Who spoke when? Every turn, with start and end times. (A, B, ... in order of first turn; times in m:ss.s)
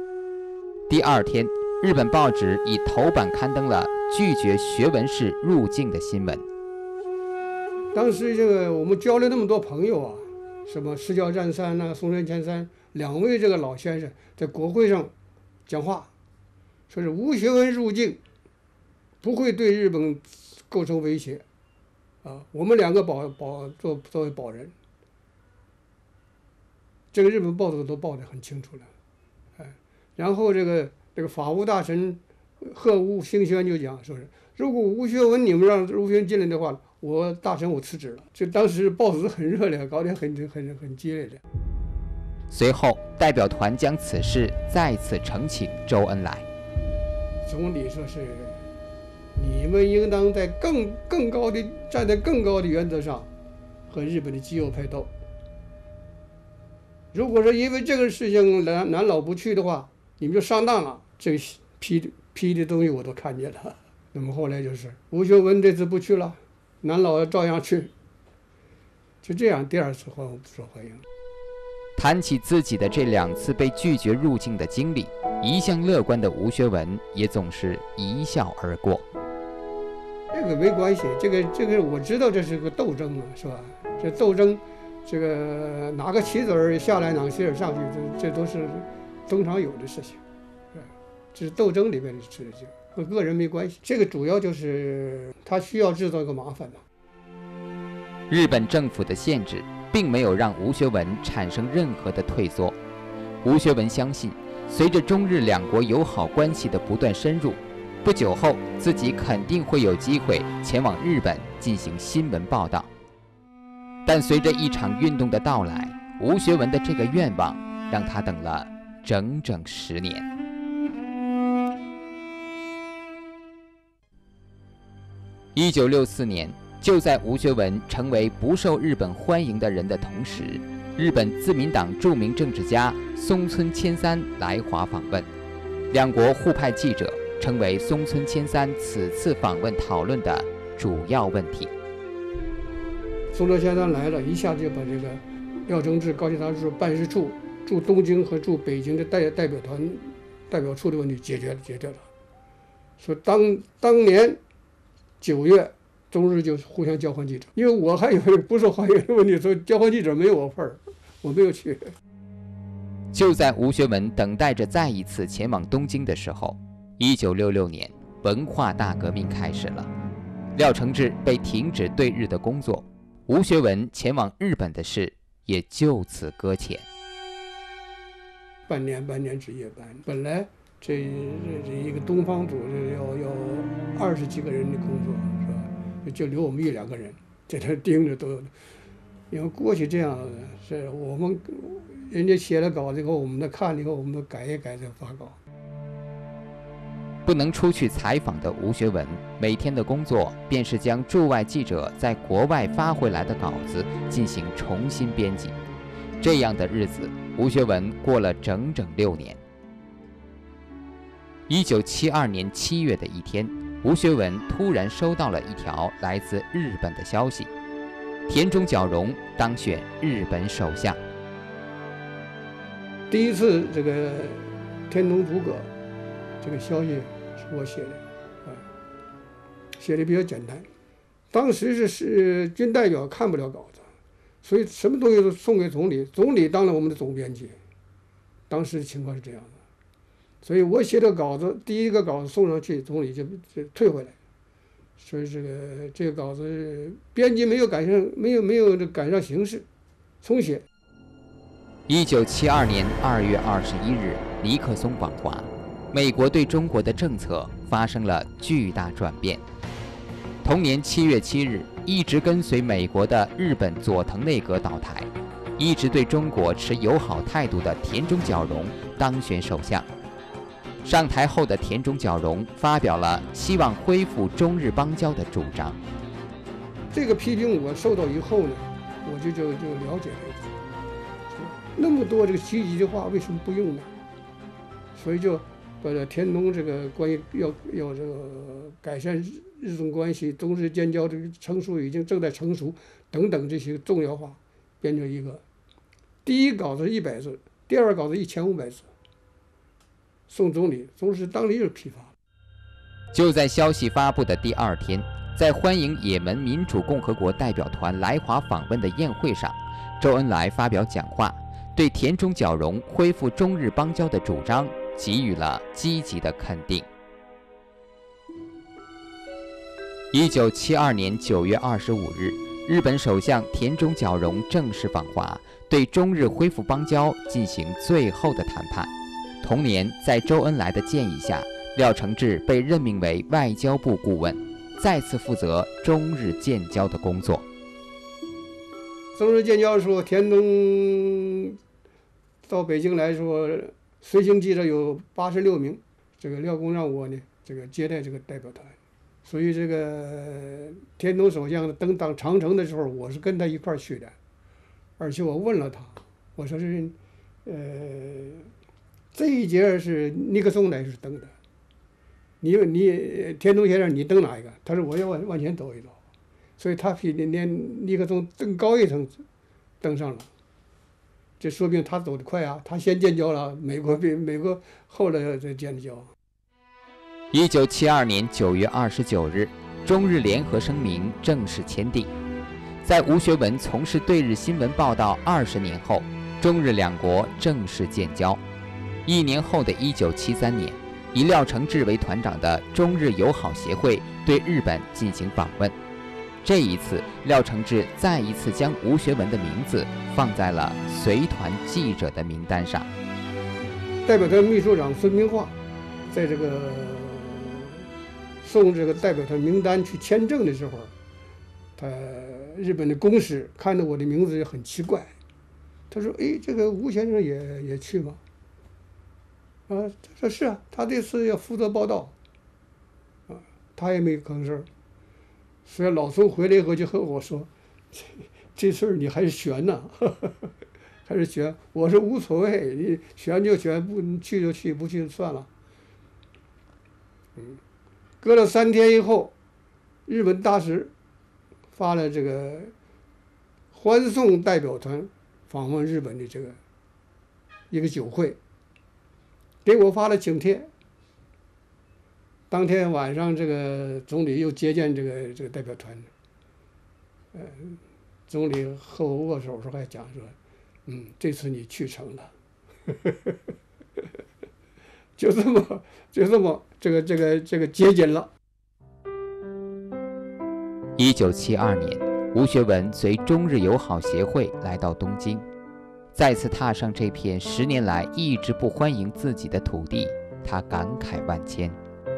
0:00.9-0:06.5 A
0:07.9-0:15.1 B
0:15.7-0:16.1 B
0:16.9-0:18.2 B
0:19.2-0:21.4 B
0:22.2-0:24.7 B
0:27.1-0:28.9 B
0:29.6-0:41.4 B
0:42.5-0:46.5 A
0:47.4-0:48.6 B
0:49.4-0:53.3 B
0:53.9-0:55.1 B
0:57.1-1:07.9 B
1:09.2-1:11.0 B
1:12.0-1:19.1 A
1:20.3-1:30.2 B
1:30.7-1:36.8 B
1:38.3-1:42.8 A
1:43.4-1:52.9 A
1:54.1-2:00.3 A
2:05.6-2:15.3 A
2:15.9-2:21.7 A
2:23.3-2:32.1 B
2:33.0-2:34.4 B
2:35.2-2:41.9 B
2:43.1-2:49.9 A
2:50.6-2:56.9 A
2:58.7-3:08.5 B
3:09.3-3:15.4 B
3:17.3-3:25.6 A
3:26.2-3:29.4 A
3:31.5-3:37.5 A
3:38.3-3:41.0 A
3:43.1-3:45.7 B
3:46.4-3:48.6 B
3:49.8-3:50.7 B
3:51.3-3:53.9 B
3:54.4-3:57.6 B
3:58.5-3:59.6 B
4:00.4-4:04.2 B
4:05.0-4:09.7 B
4:10.2-4:10.6 B
4:11.9-4:19.4 A
4:20.4-4:29.9 A
4:30.8-4:35.8 A
4:36.9-4:40.5 B
4:41.3-4:43.9 B
4:45.0-4:55.4 B
4:56.2-4:58.9 B
5:00.3-5:02.1 B
5:03.1-5:16.9 A
5:20.1-5:37.5 A
5:39.2-5:41.6 B
5:42.5-5:54.2 B
5:55.0-5:58.5 B
5:59.1-6:01.3 B
6:02.4-6:06.0 B
6:06.6-6:09.2 B
6:09.8-6:10.3 B
6:11.4-6:16.1 B
6:17.3-6:22.1 A
6:22.8-6:28.4 A
6:29.1-6:35.8 A
6:36.4-6:42.9 A
6:44.0-6:45.6 B
6:46.1-6:47.9 B
6:48.4-6:50.9 B
6:51.8-6:55.1 B
6:55.9-6:58.2 B
6:59.7-7:02.1 B
7:03.3-7:04.7 B
7:05.6-7:10.5 B
7:11.1-7:15.5 B
7:18.2-7:19.3 B
7:20.1-7:20.9 B
7:21.7-7:22.7 B
7:23.7-7:26.6 B
7:27.7-7:28.4 B
7:29.6-7:30.7 B
7:32.5-7:36.1 B
7:37.3-7:42.3 B
7:42.9-7:44.0 B
7:45.2-7:48.3 B
7:51.0-7:55.5 A
7:56.1-8:01.8 A